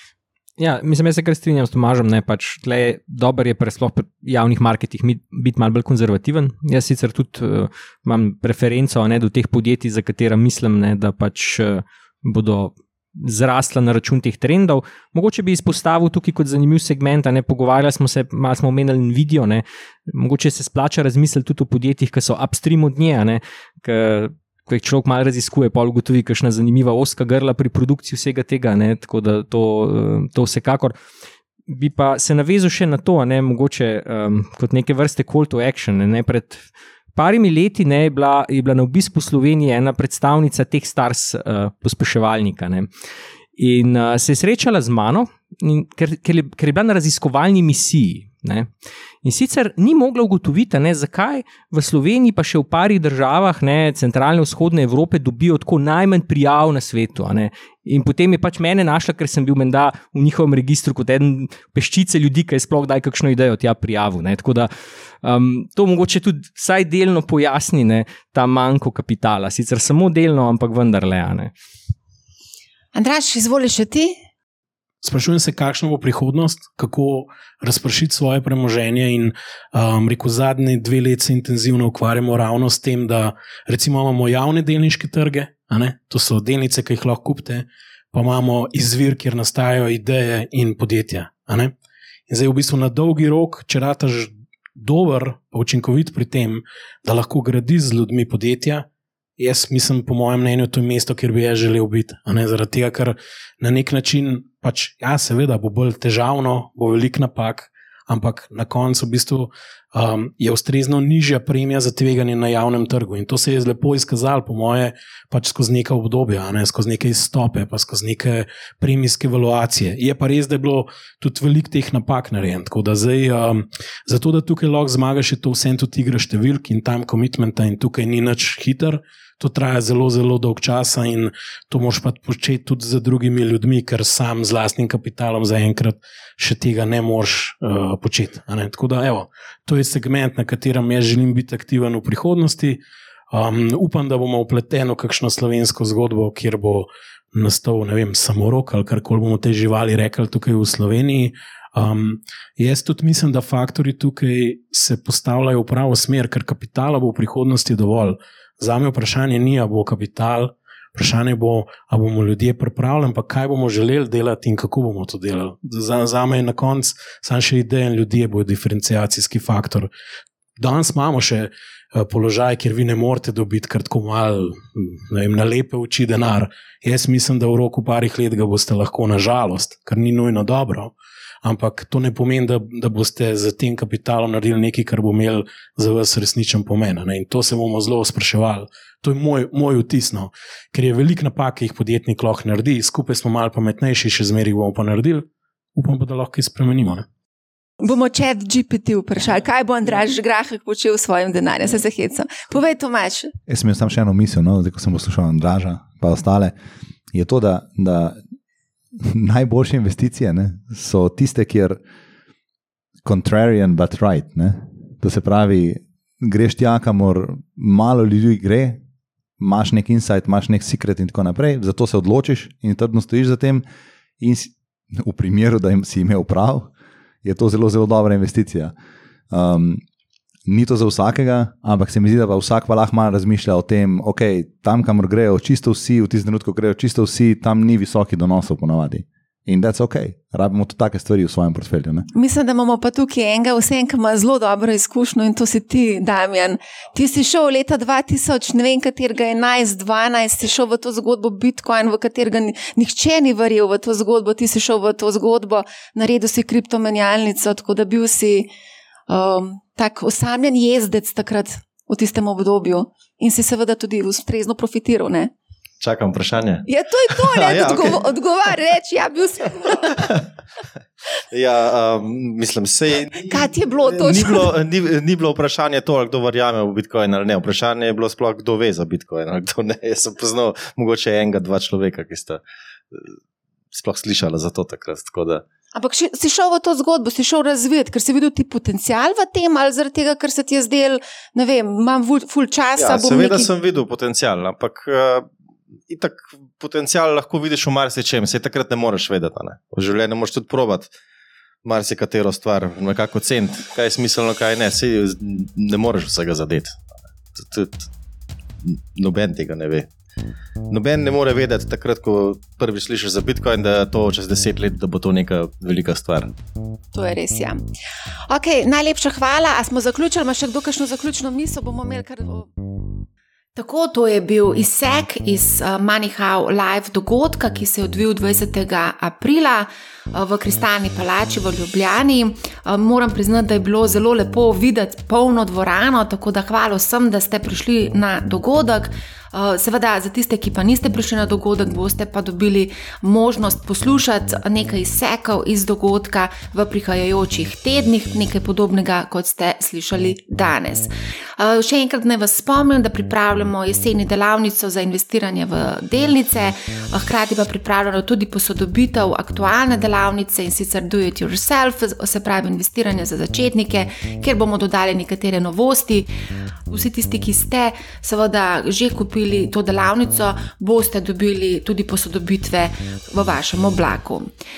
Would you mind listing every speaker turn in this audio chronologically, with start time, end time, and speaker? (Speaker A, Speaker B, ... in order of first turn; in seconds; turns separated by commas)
Speaker A: 0.6-31.0, Speaker A: 31.7-42.9, Speaker A: 43.6-48.7, Speaker A: 49.2-71.5, Speaker B: 73.0-74.2, Speaker C: 75.0-91.7, Speaker C: 92.3-98.9, Speaker C: 99.4-142.8, Speaker C: 143.3-169.9, Speaker C: 170.6-197.1, Speaker B: 197.8-203.3, Speaker D: 203.5-206.6, Speaker D: 207.1-208.2, Speaker D: 209.0-211.8, Speaker D: 213.1-218.8, Speaker D: 219.4-223.6, Speaker D: 224.2-226.7, Speaker D: 227.2-228.7, Speaker D: 229.3-229.8, Speaker D: 230.5-242.1, Speaker B: 242.1-258.5, Speaker B: 259.1-265.3, Speaker E: 265.8-266.6, Speaker B: 266.7-270.1, Speaker E: 267.3-268.0, Speaker E: 271.3-283.2, Speaker B: 273.3-274.5, Speaker E: 283.7-285.4, Speaker B: 285.8-293.5, Speaker E: 292.8-295.3, Speaker E: 295.9-300.9, Speaker E: 301.6-307.9, Speaker E: 308.6-309.9, Speaker E: 310.7-316.3, Speaker B: 316.9-317.7, Speaker B: 318.3-322.7, Speaker B: 323.6-366.1, Speaker B: 366.7-374.3